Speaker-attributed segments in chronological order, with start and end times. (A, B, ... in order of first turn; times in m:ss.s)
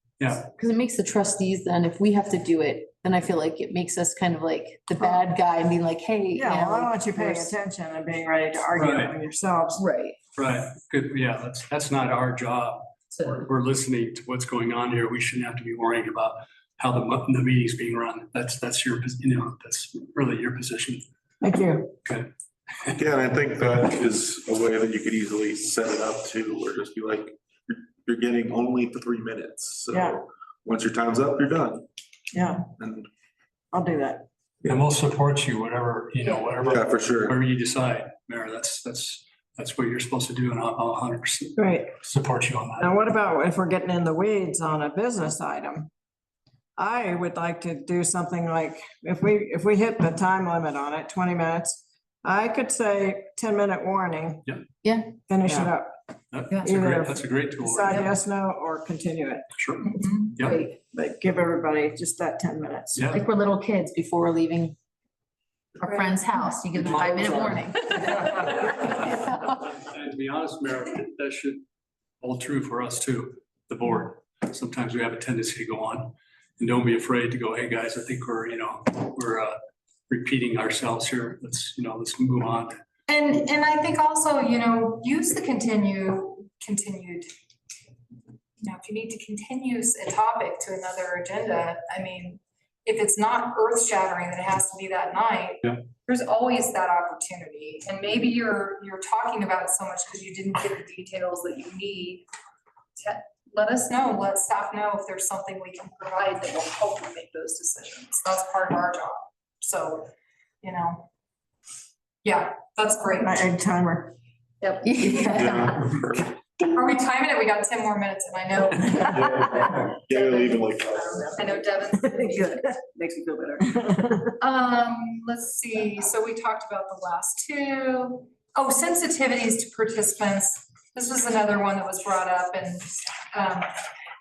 0:00.2-0:00.5 A
0:00.5-0:07.5 B
0:06.3-0:09.9 C
0:08.8-0:09.2 A
0:09.8-0:10.2 B
0:10.4-0:21.0 A
0:21.4-0:21.9 C
0:22.0-0:22.3 A
0:22.9-0:31.9 D
0:29.9-0:30.2 C
0:32.3-0:32.7 C
0:32.8-0:33.1 D
0:33.7-0:34.3 C
0:34.6-0:42.9 A
0:36.6-0:37.4 D
0:41.6-0:41.9 C
0:42.8-0:45.9 C
0:46.8-0:54.5 C
0:54.8-0:55.2 B
0:55.3-0:55.9 C
0:55.4-0:55.7 A
0:56.3-0:58.1 A
0:56.6-0:59.5 C
0:59.6-1:00.6 A
0:59.8-1:00.6 E
1:00.4-1:00.8 B
1:00.7-1:03.2 C
1:03.0-1:03.2 A
1:03.1-1:04.8 B
1:05.8-1:09.6 B
1:05.9-1:06.6 E
1:06.8-1:07.6 A
1:08.3-1:11.6 A
1:12.2-1:19.6 A
1:20.1-1:22.8 A
1:23.1-1:27.3 E
1:28.6-1:42.3 E
1:43.0-1:50.1 E
1:50.6-1:51.1 E
1:52.2-1:53.6 E
1:53.2-1:54.2 C
1:54.6-1:55.5 E
1:54.8-1:55.9 B
1:55.3-1:56.3 D
1:56.6-2:02.8 E
1:59.2-2:01.0 D
2:02.1-2:04.2 F
2:04.4-2:13.7 E